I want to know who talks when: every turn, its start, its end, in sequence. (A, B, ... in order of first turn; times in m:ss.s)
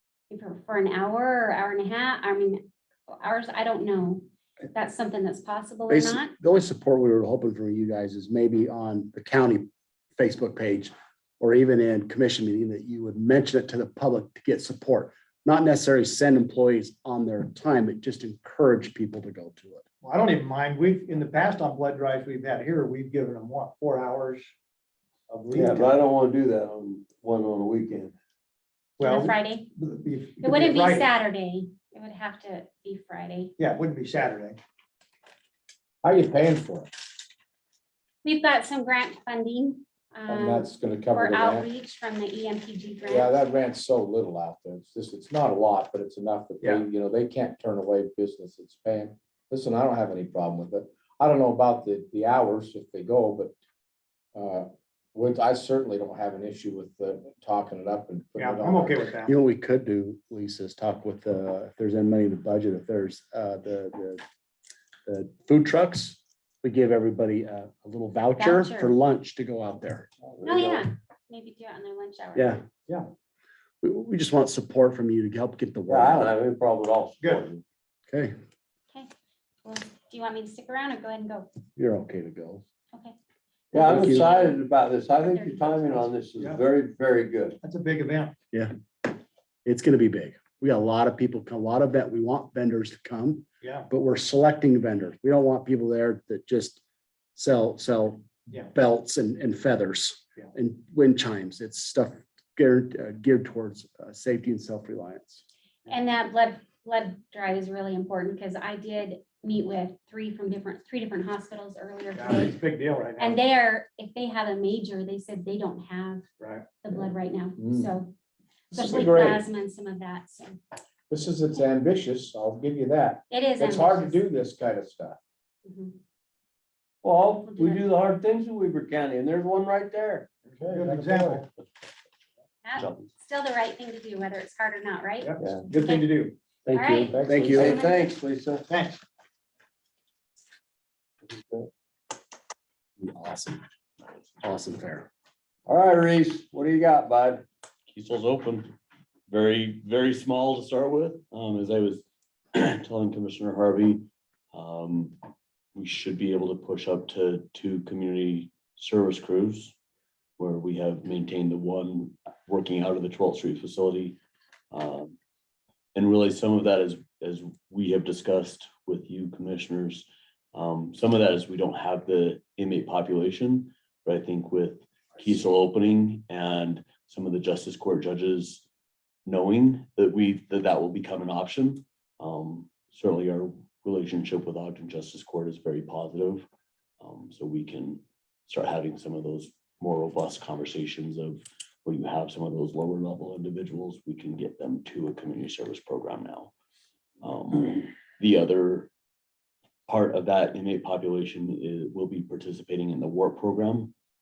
0:00.3-0:06.3 A
0:05.9-0:19.8 B
0:20.0-0:24.5 C
0:25.3-0:26.0 C
0:25.5-0:28.1 D
0:29.0-0:31.1 C
0:29.0-0:29.7 A
0:30.4-0:33.5 A
0:33.6-0:34.6 C
0:36.0-0:36.9 E
0:38.2-0:43.4 A
0:40.3-0:41.7 E
0:43.0-0:53.5 E
0:54.3-0:59.0 E
0:58.4-0:59.3 C
0:59.2-1:04.2 B
1:05.0-1:10.1 B
1:08.4-1:08.9 A
1:10.2-1:10.8 D
1:10.4-1:12.6 A
1:12.3-1:12.6 B
1:13.8-1:16.3 B
1:15.9-1:17.6 D
1:18.1-1:18.3 B
1:19.6-1:21.5 A
1:21.8-1:22.6 B
1:23.7-1:27.6 D
1:23.7-1:24.3 B
1:23.9-1:24.6 A
1:25.2-1:26.1 A
1:27.6-1:28.3 C
1:29.6-1:36.8 B
1:33.6-1:33.9 C
1:37.3-1:45.4 B
1:45.9-1:52.6 A
1:52.1-1:53.4 C
1:53.2-1:56.2 A
1:56.4-1:56.7 C
1:56.8-1:58.1 A
1:57.6-1:57.9 E
1:58.7-2:00.6 A
1:58.7-1:59.4 E
2:01.1-2:05.2 E
2:03.3-2:04.2 A
2:05.6-2:06.0 A
2:07.0-2:10.3 D
2:07.4-2:07.8 A
2:10.6-2:11.4 E
2:10.7-2:11.4 C
2:12.6-2:16.0 A
2:15.2-2:16.4 C
2:15.4-2:15.7 D
2:16.6-2:18.6 D
2:16.7-2:18.0 A
2:17.1-2:17.7 E
2:17.2-2:17.8 B
2:18.7-2:19.0 C
2:21.2-2:21.7 D
2:23.0-2:23.6 B
2:24.4-2:25.1 B
2:25.7-2:27.4 D
2:27.9-2:28.7 F
2:29.3-2:35.2 F
2:35.7-2:39.7 F
2:40.4-2:44.2 F
2:44.7-2:45.2 F
2:45.9-2:58.6 F
2:59.2-3:06.4 F
3:07.0-3:16.5 F
3:17.2-3:18.9 F
3:19.9-3:23.9 F